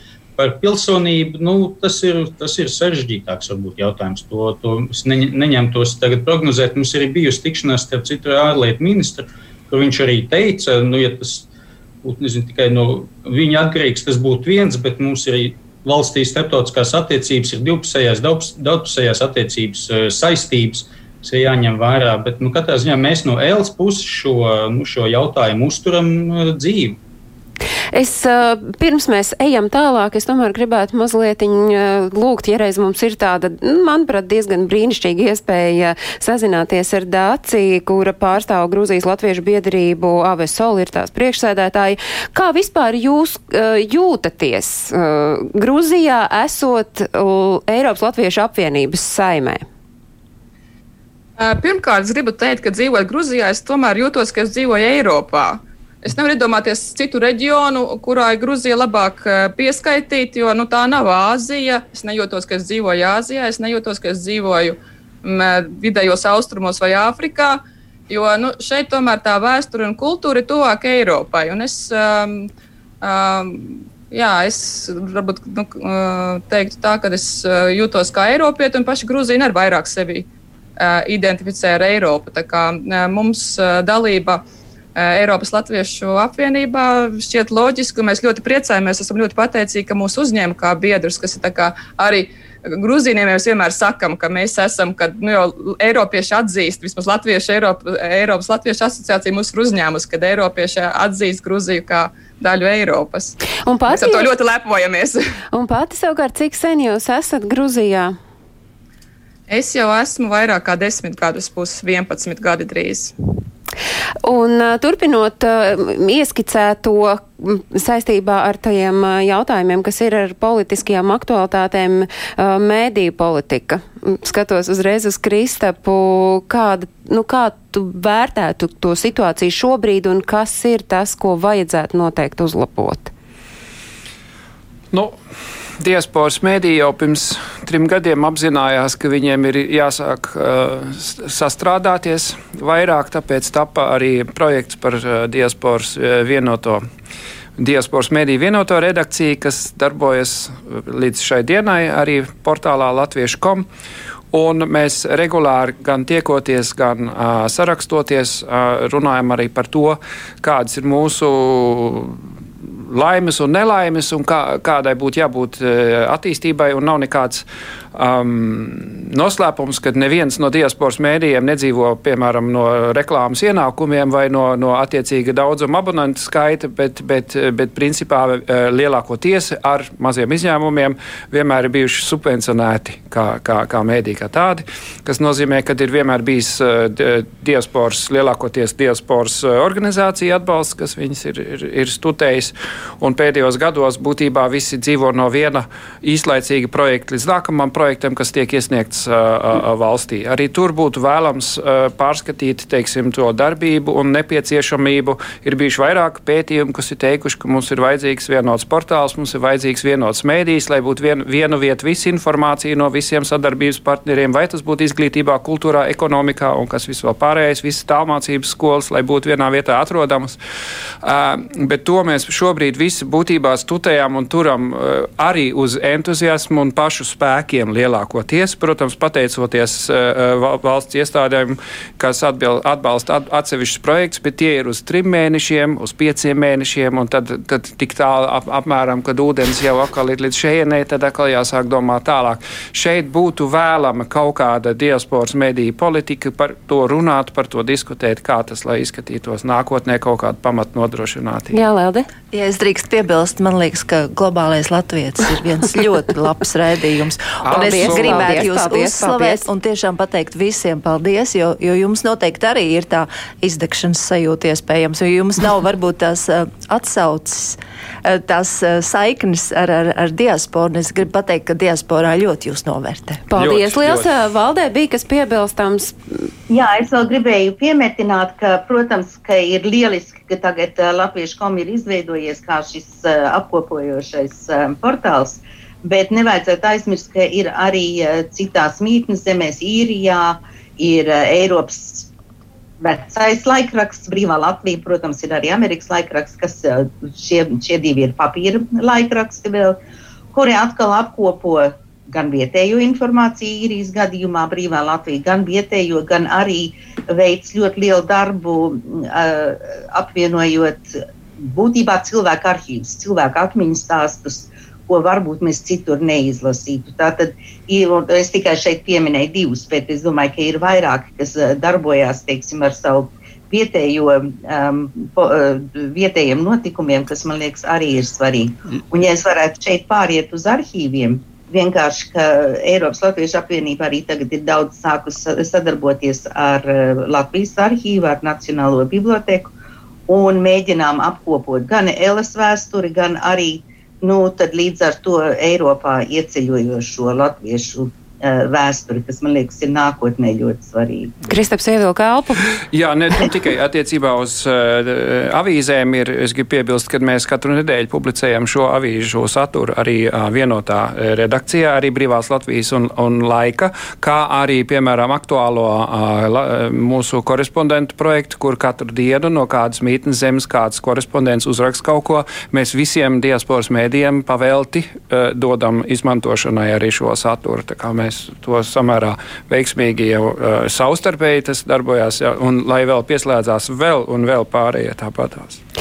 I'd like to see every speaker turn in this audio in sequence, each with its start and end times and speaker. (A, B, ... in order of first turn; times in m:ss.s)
0:00.4-0:11.5 A
0:12.0-0:27.0 A
0:27.9-0:49.6 B
0:51.4-1:12.5 C
1:13.0-1:24.4 C
1:25.0-1:43.4 C
1:43.6-1:44.3 B
1:43.9-1:45.3 C
1:45.5-1:48.2 B
1:49.5-1:53.1 C
1:54.2-2:13.1 B
2:15.8-2:26.8 D
2:27.6-2:33.6 D
2:34.3-2:42.2 D
2:42.9-3:40.4 D
3:41.0-4:11.6 D
4:11.5-4:12.1 B
4:12.3-4:33.2 E
4:17.4-4:18.5 D
4:17.5-4:19.5 B
4:33.3-4:36.3 B
4:33.4-4:34.1 D
4:36.5-4:52.1 F
4:52.8-4:59.8 F
5:00.3-5:39.5 F
5:40.1-5:51.1 F
5:51.3-5:52.5 B
5:52.7-6:25.6 D